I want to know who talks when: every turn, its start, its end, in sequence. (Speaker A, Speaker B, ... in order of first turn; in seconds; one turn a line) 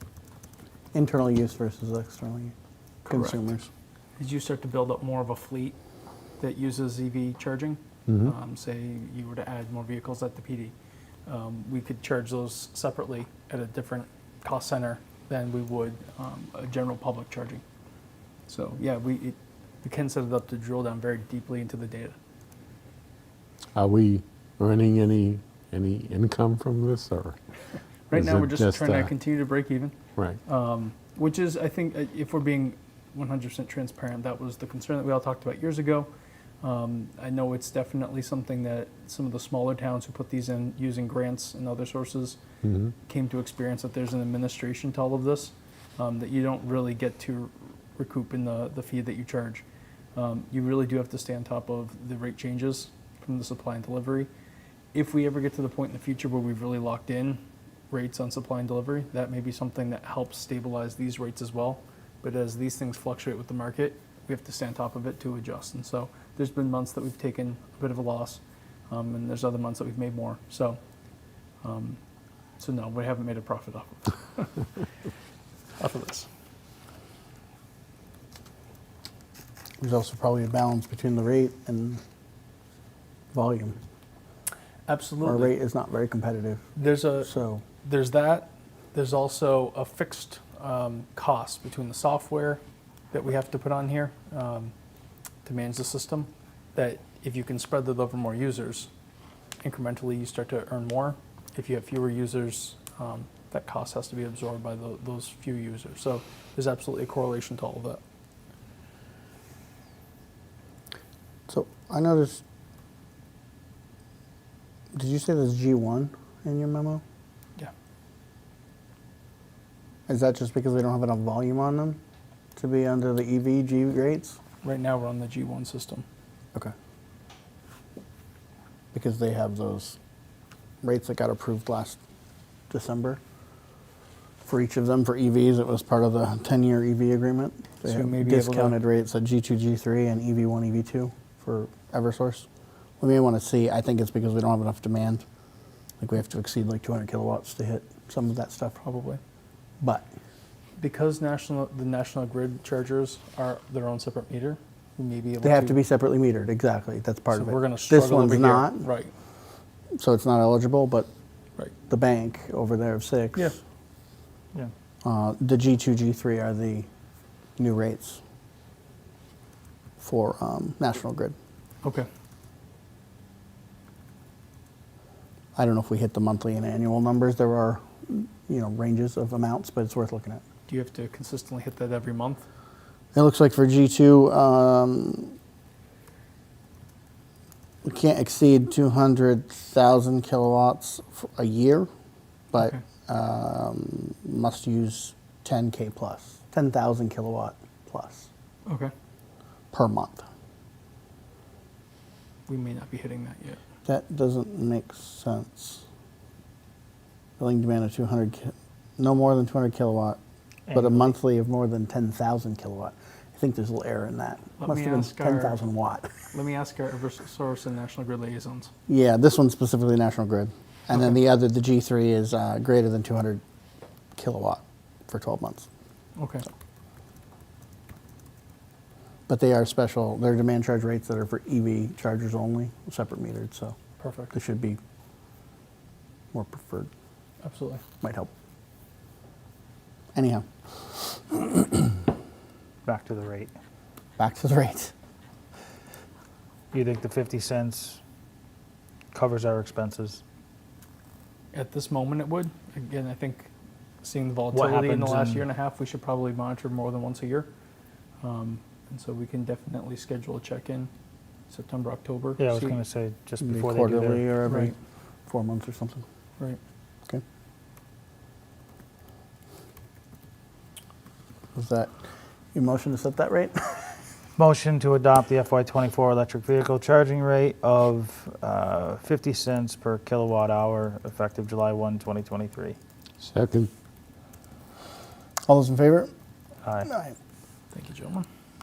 Speaker A: 0.9-2.5
Speaker B: 3.1-3.4
Speaker A: 3.1-3.7
Speaker B: 4.2-5.8
Speaker B: 6.4-10.7
Speaker B: 11.3-17.6
Speaker B: 18.5-22.1
Speaker C: 23.8-27.4
Speaker B: 28.1-29.9
Speaker C: 28.1-29.1
Speaker B: 30.5-36.1
Speaker B: 36.6-42.4
Speaker C: 42.6-42.9
Speaker B: 43.1-49.6
Speaker B: 50.1-54.3
Speaker B: 54.9-70.8
Speaker B: 71.6-72.0
Speaker B: 72.6-74.6
Speaker B: 75.8-76.3
Speaker A: 79.8-82.0
Speaker A: 83.3-83.8
Speaker B: 84.9-85.5
Speaker A: 85.2-86.7
Speaker B: 86.8-94.7
Speaker A: 87.2-87.6
Speaker B: 95.5-98.9
Speaker B: 99.6-108.0
Speaker A: 111.5-112.4
Speaker A: 114.9-117.0
Speaker A: 120.1-122.0
Speaker A: 122.6-124.4
Speaker B: 124.6-126.0
Speaker A: 128.9-130.0
Speaker A: 130.8-132.0
Speaker A: 132.7-133.2
Speaker A: 134.4-142.5
Speaker B: 137.8-138.8
Speaker A: 143.0-145.2
Speaker A: 146.0-148.8
Speaker B: 148.8-149.2
Speaker A: 149.8-150.1
Speaker B: 150.8-155.8
Speaker A: 155.4-158.9
Speaker B: 157.3-159.1
Speaker A: 160.0-161.1
Speaker A: 161.9-163.6
Speaker A: 165.0-166.9
Speaker A: 167.6-168.2
Speaker A: 170.0-171.3
Speaker B: 171.8-172.1
Speaker A: 175.6-180.4
Speaker B: 180.7-182.4
Speaker A: 183.1-185.3
Speaker A: 187.8-191.9
Speaker A: 192.5-198.3
Speaker B: 198.7-198.9
Speaker A: 199.7-200.3
Speaker B: 202.5-203.6
Speaker A: 203.9-205.8
Speaker A: 207.4-210.2
Speaker D: 210.7-211.1
Speaker A: 210.7-216.1
Speaker B: 214.6-215.6
Speaker B: 216.3-218.7
Speaker A: 218.9-223.4
Speaker A: 224.2-225.7
Speaker B: 226.2-226.4
Speaker A: 229.3-233.8
Speaker B: 234.0-234.3
Speaker A: 234.3-234.8
Speaker A: 236.3-236.9
Speaker B: 237.4-237.8
Speaker A: 238.0-238.3
Speaker A: 240.2-241.9
Speaker D: 242.9-243.5
Speaker A: 244.2-244.9
Speaker D: 246.7-248.0
Speaker D: 249.1-250.2
Speaker B: 251.5-253.5
Speaker B: 254.0-257.5
Speaker D: 254.5-255.4
Speaker B: 258.2-260.9
Speaker B: 261.5-262.8
Speaker D: 262.4-264.3
Speaker A: 263.4-264.8
Speaker B: 264.5-264.8
Speaker A: 265.3-266.0
Speaker A: 271.6-271.9
Speaker A: 272.5-274.0
Speaker D: 274.4-282.8
Speaker C: 283.2-283.7
Speaker A: 285.5-286.1
Speaker A: 286.8-287.1
Speaker B: 287.7-288.3